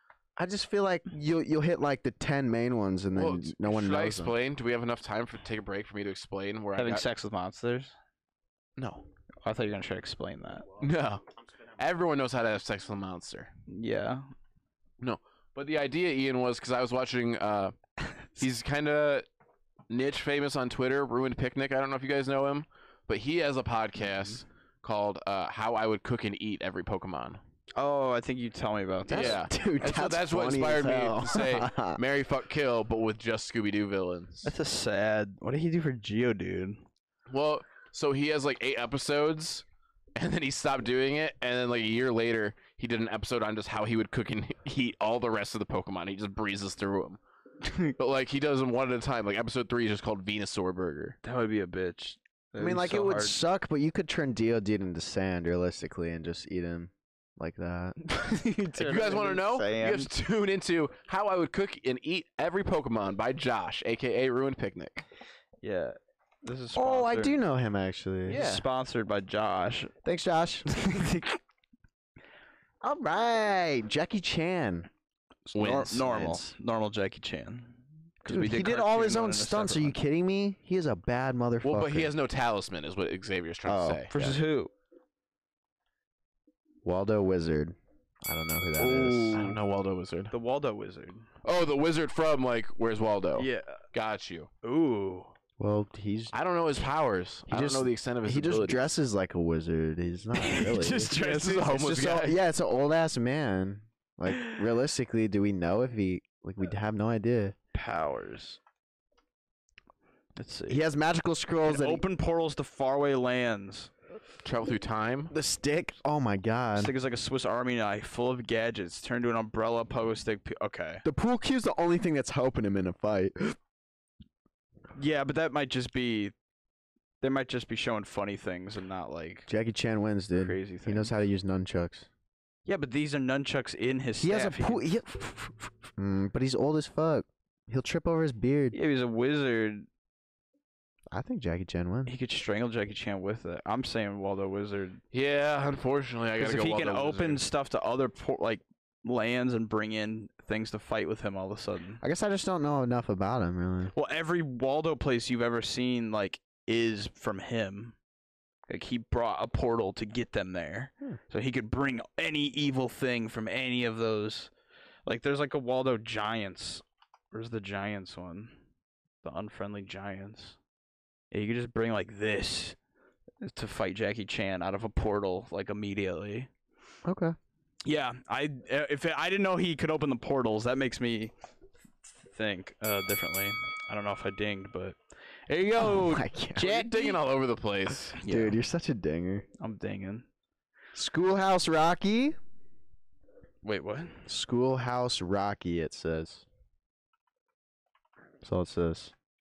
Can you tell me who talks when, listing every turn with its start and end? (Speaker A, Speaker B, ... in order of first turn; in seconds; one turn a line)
Speaker A: 0.4-4.3
Speaker B: 3.1-7.0
Speaker C: 6.8-7.9
Speaker B: 8.8-9.1
Speaker C: 9.4-10.7
Speaker B: 10.8-11.2
Speaker B: 11.8-13.5
Speaker C: 13.7-14.3
Speaker B: 15.0-17.7
Speaker B: 18.4-19.2
Speaker B: 19.9-27.4
Speaker C: 27.7-29.4
Speaker A: 29.1-32.0
Speaker B: 29.1-34.5
Speaker C: 34.4-36.8
Speaker B: 37.3-47.2
Speaker C: 47.6-47.9
Speaker B: 48.0-51.2
Speaker C: 51.2-53.4
Speaker A: 52.6-58.0
Speaker C: 58.0-60.1
Speaker B: 58.8-65.0
Speaker C: 65.6-67.4
Speaker A: 66.7-68.4
Speaker C: 68.3-69.9
Speaker B: 68.3-68.6
Speaker A: 70.0-70.7
Speaker C: 70.7-71.4
Speaker A: 72.8-74.9
Speaker C: 75.5-80.0
Speaker B: 75.5-76.0
Speaker A: 75.6-76.5
Speaker A: 78.2-82.1
Speaker B: 81.6-84.1
Speaker A: 83.7-84.4
Speaker C: 84.1-84.7
Speaker A: 86.8-89.4
Speaker C: 88.8-89.5
Speaker B: 89.3-90.3
Speaker C: 90.3-91.2
Speaker B: 91.4-94.5
Speaker C: 93.4-93.8
Speaker C: 94.6-95.3
Speaker A: 95.6-96.3
Speaker B: 96.3-98.9
Speaker A: 97.5-101.2
Speaker C: 100.3-101.9
Speaker B: 101.1-102.4
Speaker A: 101.7-107.5
Speaker C: 104.3-104.6
Speaker C: 107.7-108.6
Speaker C: 110.3-110.8
Speaker A: 110.7-112.0
Speaker C: 111.7-113.9
Speaker B: 114.4-115.3
Speaker A: 115.3-116.9
Speaker C: 116.8-121.0
Speaker A: 121.0-123.5
Speaker C: 125.0-126.3
Speaker C: 127.2-129.5
Speaker A: 129.5-132.1
Speaker C: 130.3-131.1
Speaker C: 132.7-134.9
Speaker A: 134.2-138.8
Speaker C: 138.7-139.9
Speaker A: 141.1-142.1
Speaker C: 142.1-145.0
Speaker B: 145.1-147.4
Speaker C: 146.4-152.0
Speaker A: 152.0-153.9
Speaker C: 153.9-157.9
Speaker C: 158.7-164.5
Speaker C: 165.1-168.6
Speaker C: 169.2-170.6
Speaker C: 171.3-172.8
Speaker C: 173.4-176.5
Speaker A: 177.0-177.3
Speaker C: 177.8-181.3
Speaker C: 182.0-187.2
Speaker A: 185.8-186.7
Speaker B: 186.6-188.2
Speaker C: 188.2-188.6
Speaker A: 188.2-189.4
Speaker C: 189.6-190.3
Speaker A: 190.9-192.4
Speaker C: 193.6-194.2
Speaker A: 194.3-196.4
Speaker A: 198.4-199.1